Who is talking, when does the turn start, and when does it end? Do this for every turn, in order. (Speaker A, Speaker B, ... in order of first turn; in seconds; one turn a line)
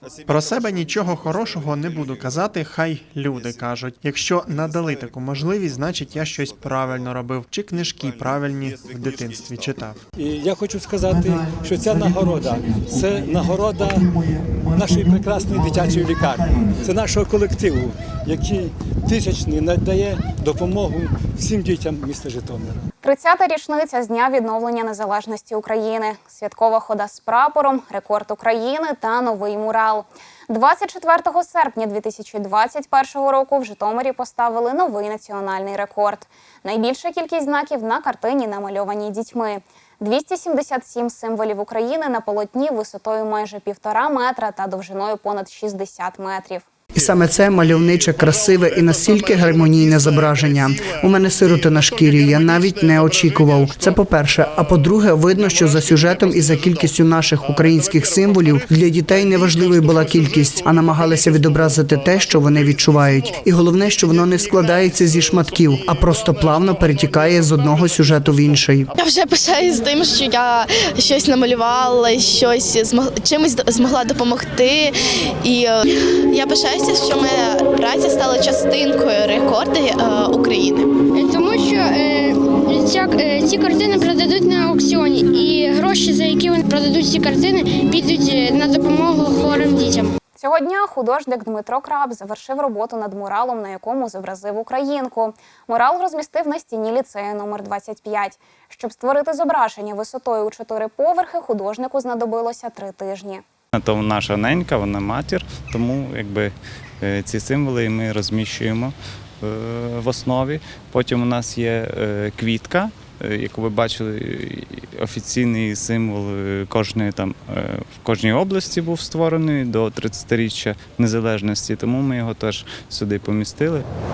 Speaker A: 0.3-10.0
Speaker B: 10.2-22.8
Speaker C: 23.0-46.7
Speaker D: 47.0-68.9
Speaker E: 69.0-81.0
Speaker F: 81.1-90.1
Speaker C: 90.4-103.4
Speaker G: 103.7-123.9